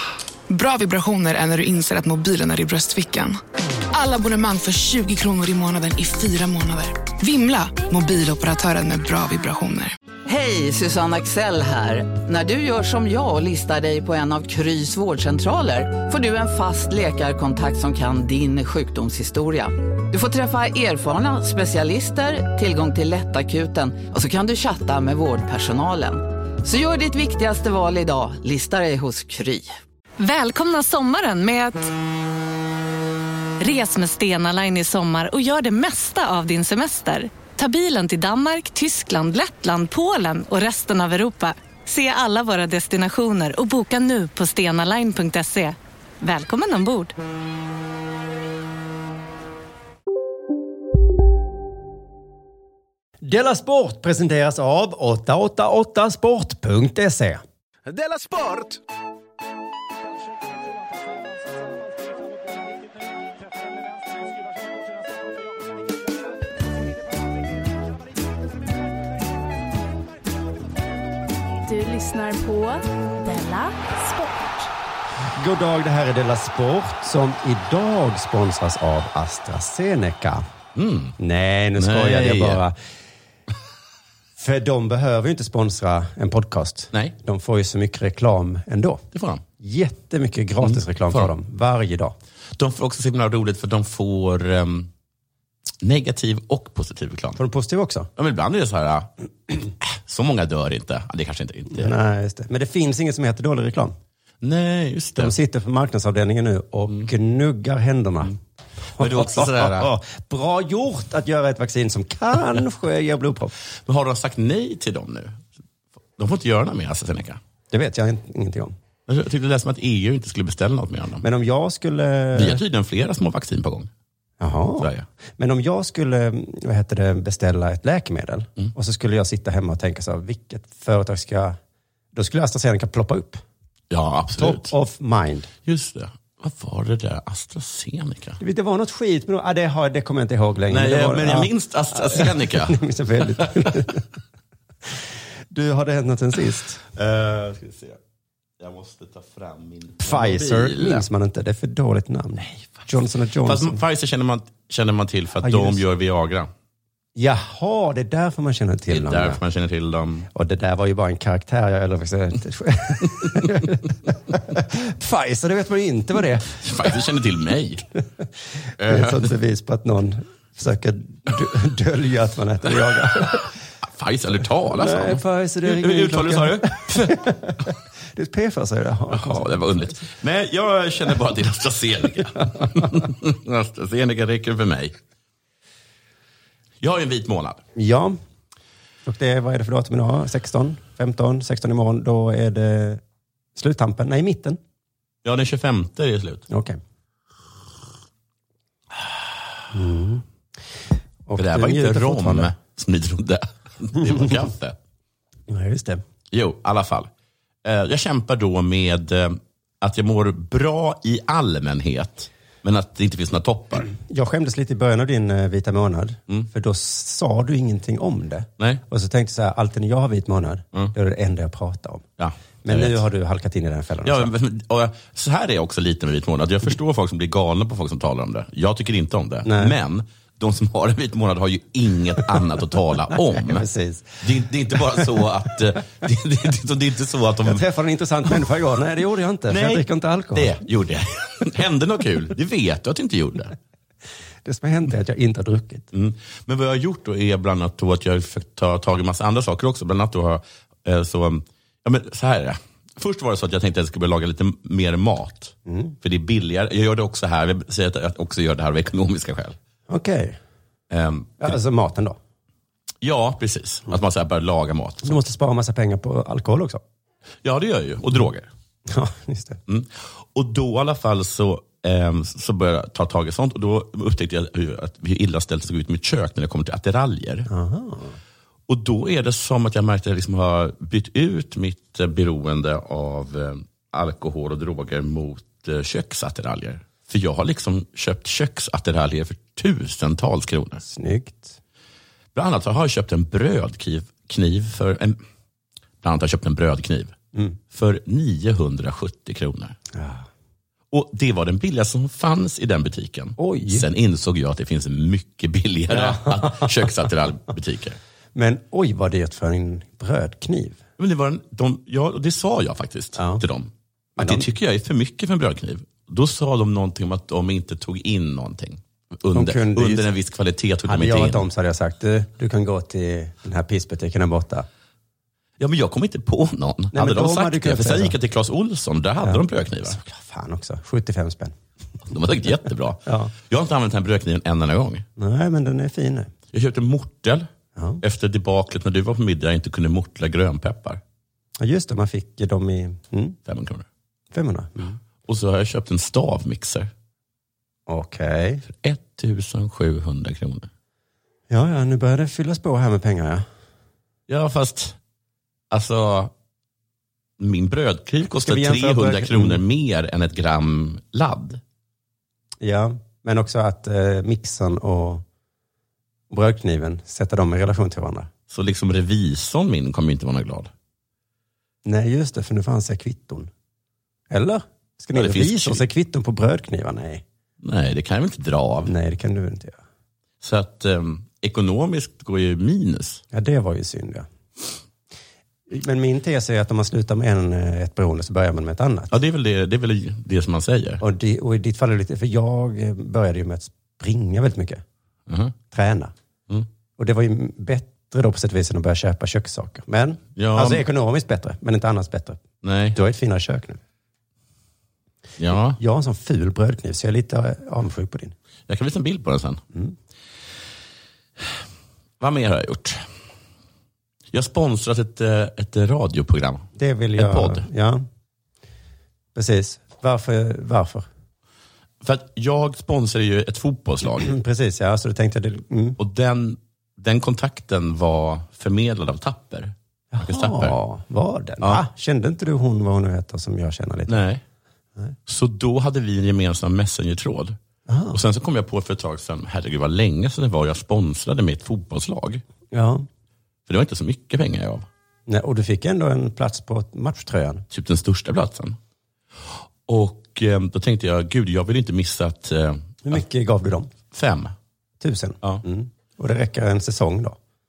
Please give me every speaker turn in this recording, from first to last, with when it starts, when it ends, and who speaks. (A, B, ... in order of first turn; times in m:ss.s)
0:00.5-0:03.4 A
0:03.9-0:09.9 A
0:10.3-0:29.7 B
0:30.2-0:31.9 C
0:33.6-0:47.1 C
0:53.2-0:57.4 D
1:11.6-1:14.7 E
1:15.4-1:20.4 D
1:20.7-1:21.2 F
1:21.2-1:22.8 D
1:21.8-1:22.6 F
1:24.4-1:29.0 D
1:29.1-1:29.4 F
1:29.6-1:32.1 D
1:30.6-1:31.3 F
1:32.6-1:34.9 F
1:35.8-1:37.4 F
1:37.4-1:38.1 D
1:38.2-1:42.0 F
1:41.7-1:43.9 D
1:44.4-1:45.3 F
1:45.2-1:48.4 D
1:48.9-1:49.9 F
1:49.0-1:53.5 D
1:53.8-1:55.4 F
1:56.2-1:57.4 F
1:57.7-1:58.7 D
1:59.1-2:01.2 F
2:01.2-2:02.6 D
2:02.3-2:03.9 F
2:04.4-2:11.6 D
2:04.8-2:05.1 F
2:12.1-2:13.4 D
2:13.9-2:14.7 F
2:14.4-2:15.5 D
2:15.6-2:18.4 F
2:18.4-2:24.0 D
2:20.7-2:22.8 F
2:25.5-2:26.8 D
2:26.9-2:28.0 F
2:28.6-2:31.1 F
2:30.0-2:33.8 D
2:32.4-2:32.8 F
2:33.4-2:36.5 F
2:35.4-2:35.8 D
2:37.2-2:39.4 D
2:38.9-2:40.3 F
2:40.3-2:46.6 D
2:46.4-2:47.8 F
2:48.8-2:49.3 F
2:48.8-2:53.5 D
2:53.8-2:57.2 F
2:54.7-3:00.0 D
2:59.1-3:05.0 F
3:02.4-3:02.9 D
3:06.8-3:07.6 F
3:07.7-3:08.2 D
3:09.0-3:13.0 D
3:13.6-3:14.6 D
3:15.2-3:16.4 F
3:16.5-3:16.8 D
3:19.7-3:20.2 D
3:21.3-3:22.5 D
3:21.4-3:24.8 F
3:25.5-3:26.0 D
3:26.3-3:27.1 F
3:27.6-3:33.9 F
3:34.0-3:42.0 D
3:42.2-3:43.0 F
3:42.6-3:44.3 D
3:44.0-3:53.6 F
3:49.4-3:49.7 D
3:53.4-3:54.2 D
3:54.2-3:57.6 F
3:57.4-4:00.6 D
3:59.5-4:03.6 F
4:04.4-4:05.9 D
4:05.9-4:19.6 F
4:15.6-4:16.0 D
4:19.9-4:20.4 D
4:20.9-4:21.6 F
4:21.4-4:22.2 D
4:23.0-4:25.2 F
4:25.0-4:26.8 D
4:27.4-4:28.5 F
4:28.9-4:29.6 D
4:29.7-4:37.5 F
4:37.5-4:38.1 D
4:38.7-4:50.8 F
4:50.8-4:51.6 D
4:52.3-4:55.2 F
4:56.0-4:57.1 F
4:57.7-4:59.8 F
4:59.9-5:00.2 D
5:00.9-5:08.0 F
5:03.4-5:03.8 D
5:05.9-5:06.7 D
5:08.3-5:10.8 D
5:11.0-5:21.5 F
5:13.2-5:13.4 D
5:14.2-5:14.5 D
5:19.3-5:20.1 D
5:20.8-5:24.6 D
5:25.6-5:30.0 F
5:26.9-5:28.1 D
5:29.2-5:31.5 D
5:32.1-5:35.0 F
5:33.0-5:33.3 D
5:35.2-5:36.3 D
5:36.5-5:37.5 F
5:37.8-5:38.0 D
5:38.0-5:41.0 F
5:41.6-5:43.4 D
5:43.4-5:43.8 F
5:44.3-5:45.0 D
5:45.2-5:46.9 F
5:47.9-5:48.6 D
5:48.7-5:50.7 F
5:51.5-5:53.4 D
5:54.3-5:55.0 F
5:55.7-5:56.3 F
5:57.4-6:01.6 F
5:58.4-5:59.6 D
6:02.6-6:05.2 D
6:06.3-6:08.3 D
6:08.5-6:10.7 F
6:11.8-6:13.5 D
6:14.3-6:17.2 D
6:15.1-6:15.8 F
6:17.6-6:18.9 F
6:18.8-6:19.8 D
6:20.4-6:23.2 F
6:23.3-6:24.3 D
6:25.7-6:29.1 D
6:29.1-6:31.0 F
6:31.0-6:34.8 D
6:35.3-6:35.5 F
6:35.7-6:36.1 D
6:37.0-6:42.4 D
6:40.4-6:40.8 F
6:42.6-6:43.0 F
6:42.9-6:43.8 D
6:45.4-6:45.8 F
6:45.8-6:48.3 D
6:48.7-6:49.6 F
6:52.2-6:53.0 F
6:54.3-6:57.7 F
6:56.8-6:58.0 D
6:59.3-7:01.1 D
7:02.0-7:04.3 F
7:04.2-7:06.0 D
7:06.0-7:10.8 F
7:10.1-7:14.2 D
7:14.1-7:14.4 F
7:15.2-7:17.6 F
7:17.9-7:18.2 D
7:18.1-7:22.4 F
7:22.7-7:23.0 D
7:23.7-7:24.9 F
7:25.3-7:27.6 D
7:27.7-7:28.8 F
7:29.9-7:33.2 F
7:33.0-7:33.9 D
7:34.1-7:34.5 F
7:35.0-7:37.4 D